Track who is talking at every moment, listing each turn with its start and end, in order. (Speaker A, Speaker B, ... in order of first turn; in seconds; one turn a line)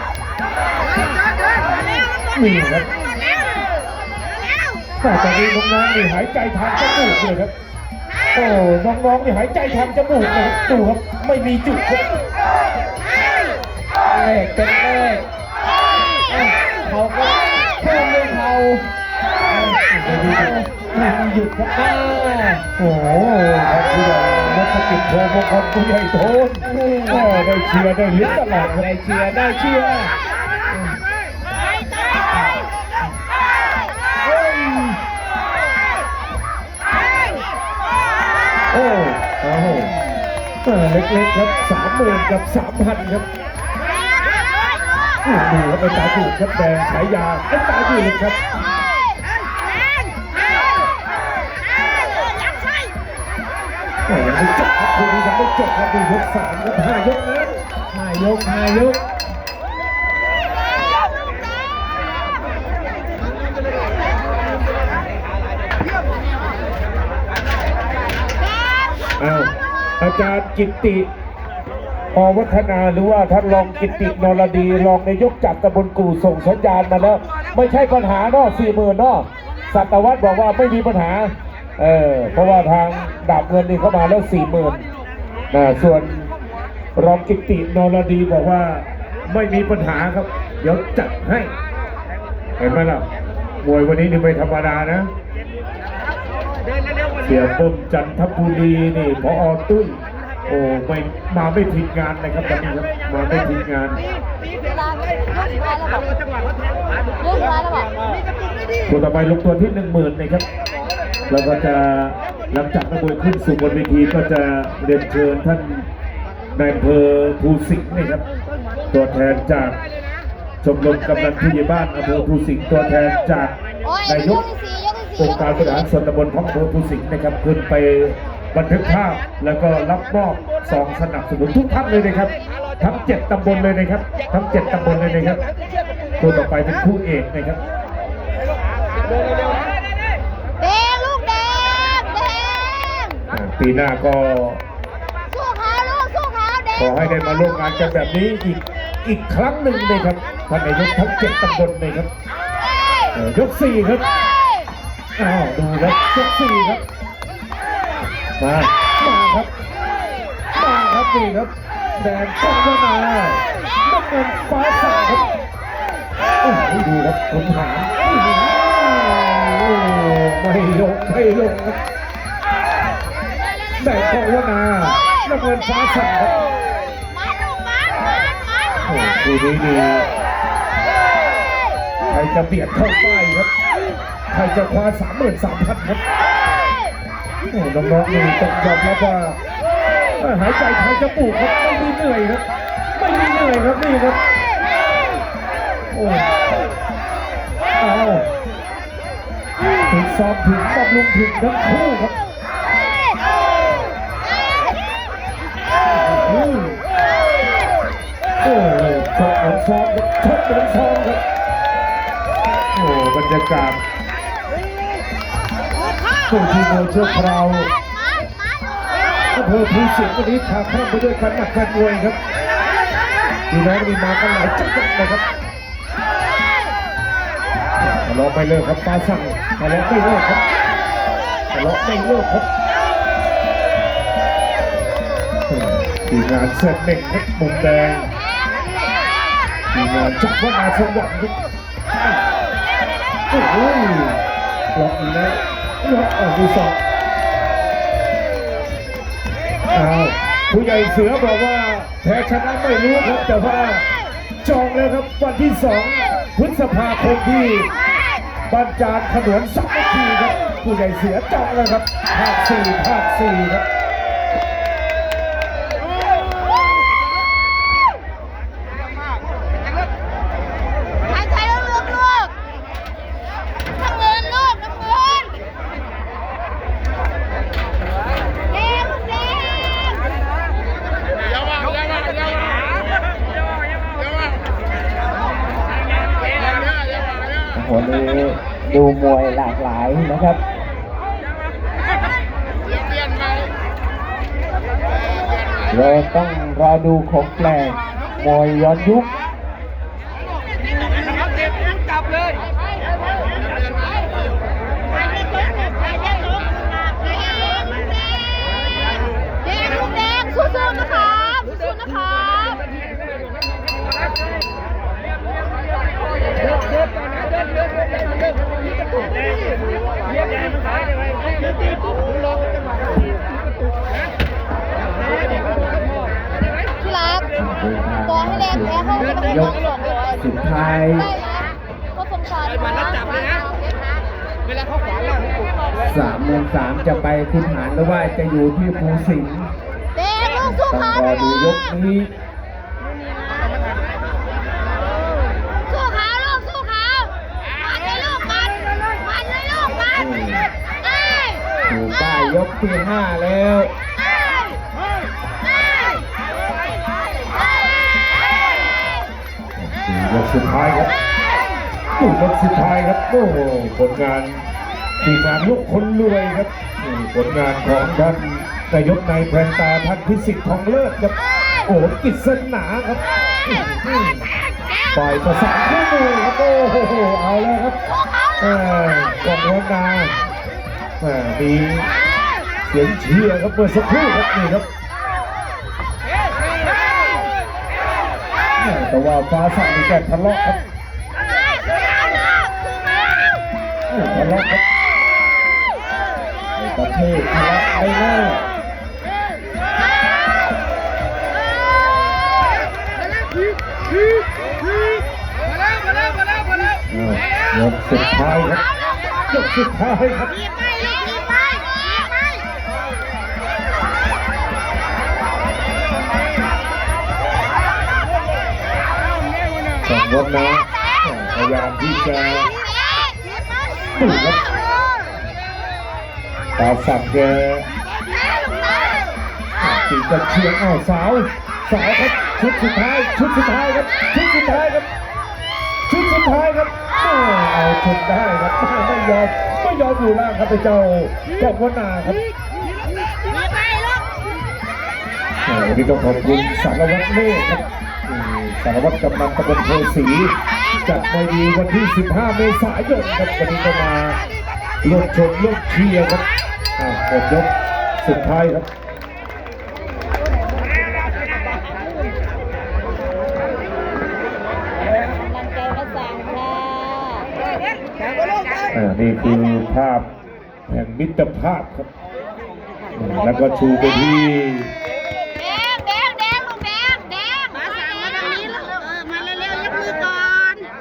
Speaker A: 2.3-2.9
Speaker A: 5.0-7.5
Speaker A: 8.3-12.1
Speaker B: 14.1-15.2
Speaker B: 16.3-18.8
Speaker A: 19.5-20.6
Speaker B: 20.0-22.6
Speaker A: 22.8-28.9
Speaker B: 26.6-27.4
Speaker B: 28.1-30.1
Speaker B: 34.5-34.9
Speaker A: 38.7-39.9
Speaker A: 40.6-43.3
Speaker A: 45.2-48.4
Speaker A: 54.1-57.5
Speaker B: 57.9-59.0
Speaker A: 69.2-71.1
Speaker A: 72.1-84.8
Speaker A: 85.5-86.3
Speaker A: 86.9-91.5
Speaker A: 92.6-93.0
Speaker A: 93.6-95.1
Speaker A: 97.2-104.0
Speaker C: 105.6-106.0
Speaker C: 107.3-107.9
Speaker A: 108.9-110.5
Speaker A: 111.3-115.9
Speaker A: 116.5-118.2
Speaker A: 118.9-119.8
Speaker A: 120.6-124.5
Speaker A: 125.2-135.4
Speaker A: 136.2-137.6
Speaker C: 140.8-141.5
Speaker A: 143.3-144.6
Speaker C: 145.8-146.4
Speaker A: 146.7-152.1
Speaker A: 153.1-154.1
Speaker A: 155.2-156.8
Speaker A: 158.4-159.5
Speaker A: 160.5-165.3
Speaker A: 166.4-171.8
Speaker A: 173.7-176.4
Speaker A: 178.8-180.1
Speaker A: 182.1-183.5
Speaker A: 184.3-186.0
Speaker A: 187.5-189.4
Speaker A: 190.2-194.2
Speaker A: 195.9-196.3
Speaker A: 197.8-198.3
Speaker A: 199.9-202.1
Speaker A: 206.0-206.8
Speaker A: 208.4-211.2
Speaker A: 212.7-213.8
Speaker A: 216.3-217.7
Speaker A: 219.3-222.2
Speaker A: 223.5-225.2
Speaker A: 227.8-230.4
Speaker A: 231.5-232.5
Speaker A: 235.5-238.1
Speaker A: 239.7-241.3
Speaker A: 243.3-244.2
Speaker A: 244.7-246.8
Speaker A: 249.7-253.8
Speaker A: 254.4-257.7
Speaker A: 258.5-263.6
Speaker B: 287.5-290.4
Speaker B: 295.7-299.1
Speaker B: 327.3-331.2
Speaker C: 332.1-333.4
Speaker B: 335.8-339.5
Speaker B: 340.4-342.1
Speaker C: 345.7-347.1
Speaker C: 348.0-348.5
Speaker B: 349.9-350.5
Speaker B: 351.6-353.7
Speaker A: 359.6-360.9
Speaker A: 362.0-364.5
Speaker A: 365.0-374.1
Speaker A: 374.9-377.8
Speaker A: 378.4-380.2
Speaker A: 381.0-381.9
Speaker A: 382.6-384.7
Speaker A: 388.6-390.6
Speaker A: 393.9-394.6
Speaker B: 396.6-398.4
Speaker A: 406.9-408.6
Speaker A: 409.3-410.4
Speaker A: 419.8-422.5
Speaker A: 423.9-424.4
Speaker A: 426.6-427.7
Speaker A: 429.6-434.9
Speaker A: 435.9-442.2
Speaker A: 445.4-454.2
Speaker A: 454.8-456.2
Speaker A: 456.8-458.7
Speaker C: 465.4-467.2
Speaker A: 468.7-470.1
Speaker A: 470.7-471.9
Speaker A: 472.9-474.7
Speaker C: 475.6-478.7